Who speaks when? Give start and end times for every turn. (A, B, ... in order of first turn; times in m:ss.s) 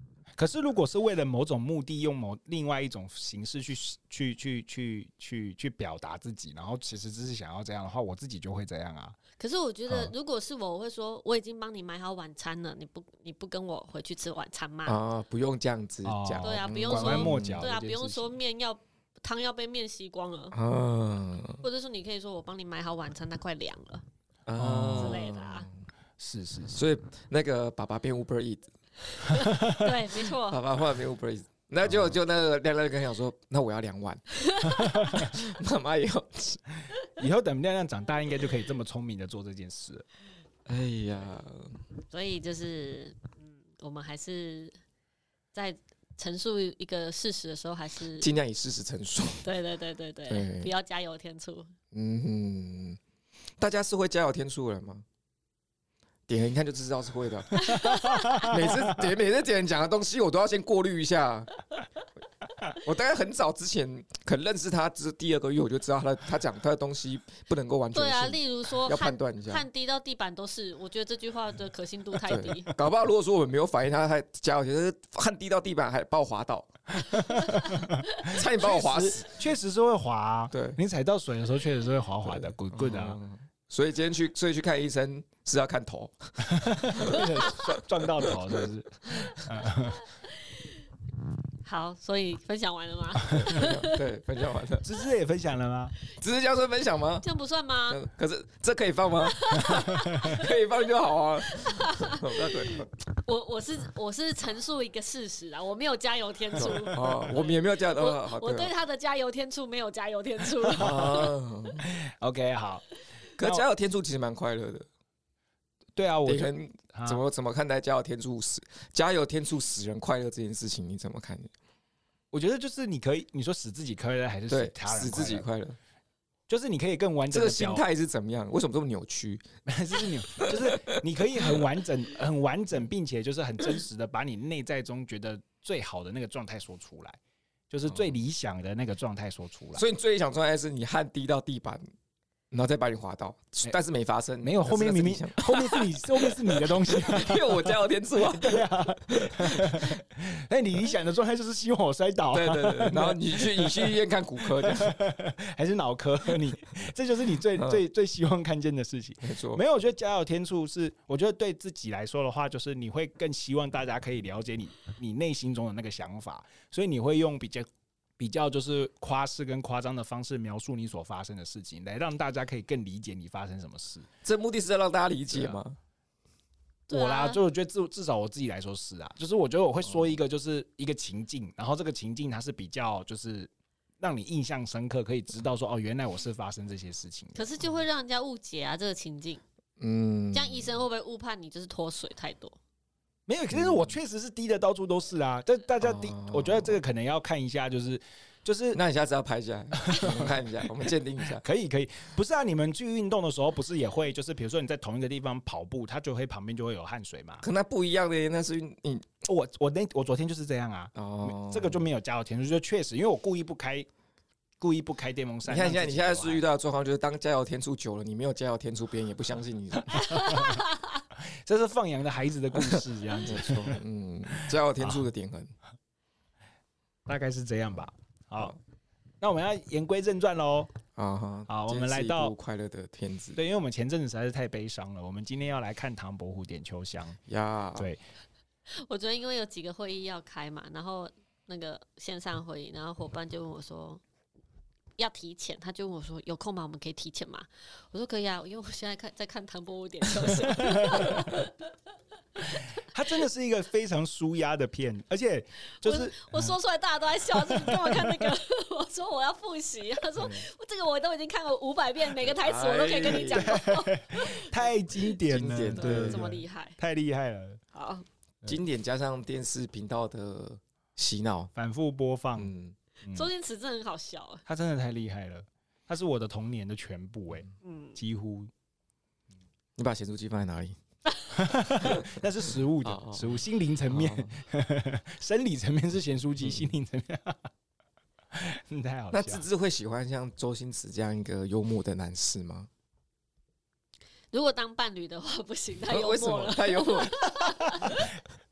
0:00.4-0:09.2 A
0:09.4-0:15.0 B
0:09.9-0:10.1 A
0:14.8-0:17.7 C
0:16.0-0:18.3 A
0:16.4-0:20.6 B
0:20.5-0:21.6 C
0:21.6-0:24.0 B
0:24.5-0:25.7 C
0:24.6-0:25.2 A
0:25.0-0:25.7 B
0:26.2-0:26.8 A
0:26.7-0:28.7 C
0:29.2-0:29.9 A
0:29.3-0:30.6 B
0:30.4-0:34.2 C
0:34.6-0:35.3 A
0:35.1-0:36.6 C
0:37.2-0:40.0 A
0:40.7-0:41.8 C
0:42.1-0:44.8 B
0:45.5-0:48.3 B
0:48.2-0:49.4 C
0:49.4-0:51.7 B
0:50.3-0:50.7 C
0:51.9-0:53.0 C
0:53.6-0:55.0 C
0:56.3-1:01.5 C
0:57.6-0:58.6 B
0:57.6-0:58.9 A
1:02.7-1:09.6 C
1:07.9-1:12.7 B
1:12.2-1:17.5 C
1:17.0-1:23.2 A
1:18.2-1:19.3 C
1:20.5-1:20.8 C
1:22.2-1:28.4 C
1:26.4-1:30.0 A
1:30.4-1:30.7 B
1:31.6-1:34.0 B
1:33.2-1:33.6 A
1:33.3-1:34.8 C
1:34.8-1:36.0 A
1:36.2-1:37.2 C
1:37.2-1:38.0 B
1:37.9-1:42.9 C
1:39.2-1:40.6 B
1:39.6-1:39.9 A
1:41.4-1:51.3 B
1:46.6-1:48.7 C
1:46.6-1:46.9 A
1:50.7-1:51.8 C
1:50.8-1:51.3 A
1:51.8-1:52.8 A
1:53.4-1:54.9 C
1:53.4-1:53.6 A
1:56.0-1:57.2 A
1:56.2-2:01.5 C
2:02.3-2:05.5 A
2:04.5-2:05.8 C
2:06.5-2:07.8 A
2:07.3-2:09.4 C
2:09.6-2:17.2 A
2:10.4-2:11.6 C
2:17.7-2:19.8 A
2:19.7-2:21.8 C
2:22.5-2:30.0 C
2:24.4-2:47.7 A
2:32.3-2:34.9 C
2:37.5-2:37.8 C
2:39.2-2:39.6 C
2:48.2-2:54.1 A
2:54.2-2:55.8 C
2:55.3-2:55.6 A
2:56.9-2:57.4 B
2:56.9-3:07.5 A
2:59.8-3:00.2 C
3:07.4-3:09.4 B
3:09.8-3:10.8 C
3:10.3-3:12.6 B
3:13.3-3:18.8 A
3:13.5-3:14.0 C
3:15.8-3:16.8 C
3:18.7-3:21.4 C
3:19.8-3:20.4 A
3:21.3-3:27.4 A
3:27.4-3:29.1 C
3:29.2-3:33.9 A
3:30.9-3:31.8 C
3:34.6-3:36.4 A
3:35.4-3:40.3 C
3:39.9-3:40.6 A
3:40.1-3:40.6 B
3:41.1-3:43.8 A
3:42.6-3:45.5 C
3:44.3-3:45.0 A
3:47.1-3:48.6 A
3:49.2-3:50.7 A
3:51.0-3:53.4 C
3:51.5-3:52.3 A
3:53.4-3:57.2 A
3:57.3-3:57.9 C
3:57.8-3:58.0 A
3:58.7-4:04.0 B
4:05.0-4:11.7 B
4:10.4-4:11.3 A
4:12.5-4:16.5 A
4:15.8-4:24.7 B
4:17.3-4:18.3 A
4:20.2-4:20.4 C
4:22.2-4:23.6 C
4:23.3-4:27.6 A
4:25.2-4:26.3 C
4:25.7-4:26.8 B
4:27.7-4:28.0 B
4:28.5-4:31.5 C
4:31.5-4:32.5 A
4:32.4-4:32.8 C
4:33.0-4:33.3 A
4:33.1-4:34.4 B
4:34.4-4:38.5 A
4:37.6-4:38.0 B
4:39.8-4:40.8 C
4:41.3-4:47.5 A
4:41.8-4:42.2 C
4:42.8-4:44.3 C
4:48.3-4:49.4 A
4:49.1-4:52.7 C
4:54.3-4:58.1 B
4:55.9-4:58.0 C